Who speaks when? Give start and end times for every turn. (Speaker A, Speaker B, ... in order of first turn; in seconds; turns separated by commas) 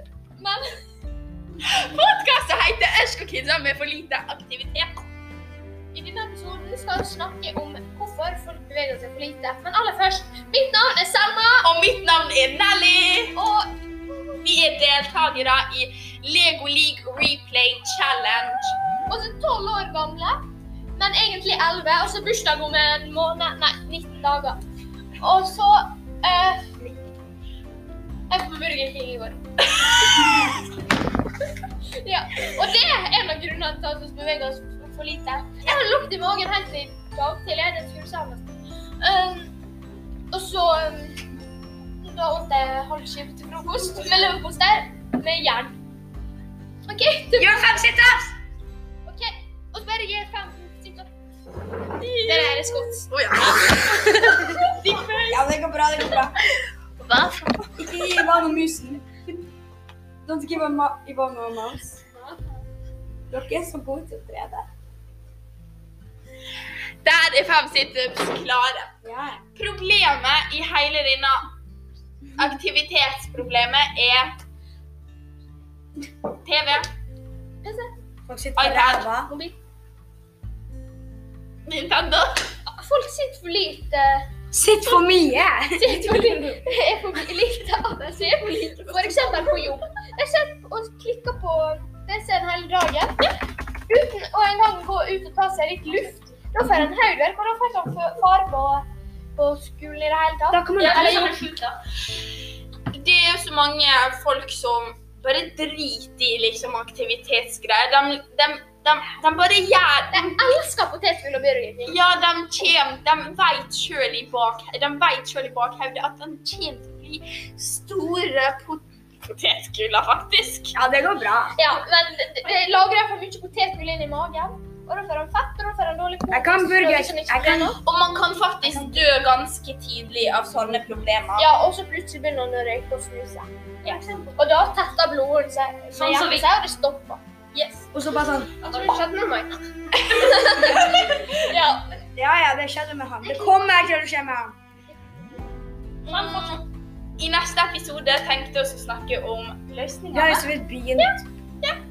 Speaker A: 0.4-0.7, Speaker B: 1.6-5.0, Speaker A: 5.9-11.7, Speaker B: 11.6-13.3, Speaker A: 13.3-14.4, Speaker B: 14.4-18.8, Speaker A: 19.1-20.4, Speaker A: 20.9-24.6, Speaker A: 25.2-26.8, Speaker A: 28.3-29.4, Speaker A: 31.9-38.5, Speaker A: 39.0-39.5, Speaker A: 40.3-41.2, Speaker A: 42.0-45.8, Speaker A: 46.9-47.8, Speaker C: 47.4-48.3, Speaker A: 49.0-51.1, Speaker B: 52.0-54.5, Speaker A: 52.2-53.1, Speaker A: 54.4-55.4, Speaker C: 55.3-56.4, Speaker D: 57.0-57.8, Speaker C: 57.8-59.3, Speaker C: 60.2-62.0, Speaker A: 62.1-62.6, Speaker C: 63.3-64.7, Speaker B: 67.0-68.9, Speaker C: 69.0-69.4, Speaker B: 69.5-71.5, Speaker B: 72.3-74.3, Speaker B: 76.4-76.9, Speaker A: 77.6-77.9, Speaker C: 78.3-79.3, Speaker B: 78.5-79.1, Speaker A: 79.2-79.6, Speaker B: 81.7-82.5, Speaker A: 82.7-84.3, Speaker C: 84.5-86.6, Speaker A: 85.8-93.3, Speaker B: 88.4-89.7, Speaker A: 93.9-101.3, Speaker C: 100.5-101.2, Speaker B: 100.8-101.4, Speaker D: 100.8-101.8, Speaker B: 102.9-110.4, Speaker A: 110.1-112.0, Speaker B: 111.8-120.8, Speaker C: 120.7-121.6, Speaker A: 121.5-127.8, Speaker C: 126.3-127.8, Speaker B: 127.8-131.5, Speaker A: 131.4-133.5, Speaker D: 133.8-134.3, Speaker A: 134.3-137.2, Speaker D: 135.9-136.5, Speaker B: 137.5-137.9, Speaker C: 137.9-138.5, Speaker A: 138.6-141.8, Speaker D: 138.7-139.0, Speaker B: 140.7-141.2, Speaker C: 142.2-144.6, Speaker A: 143.2-143.9, Speaker D: 146.1-146.6, Speaker B: 146.1-146.6, Speaker B: 147.2-150.5, Speaker C: 150.1-151.1, Speaker A: 151.0-151.7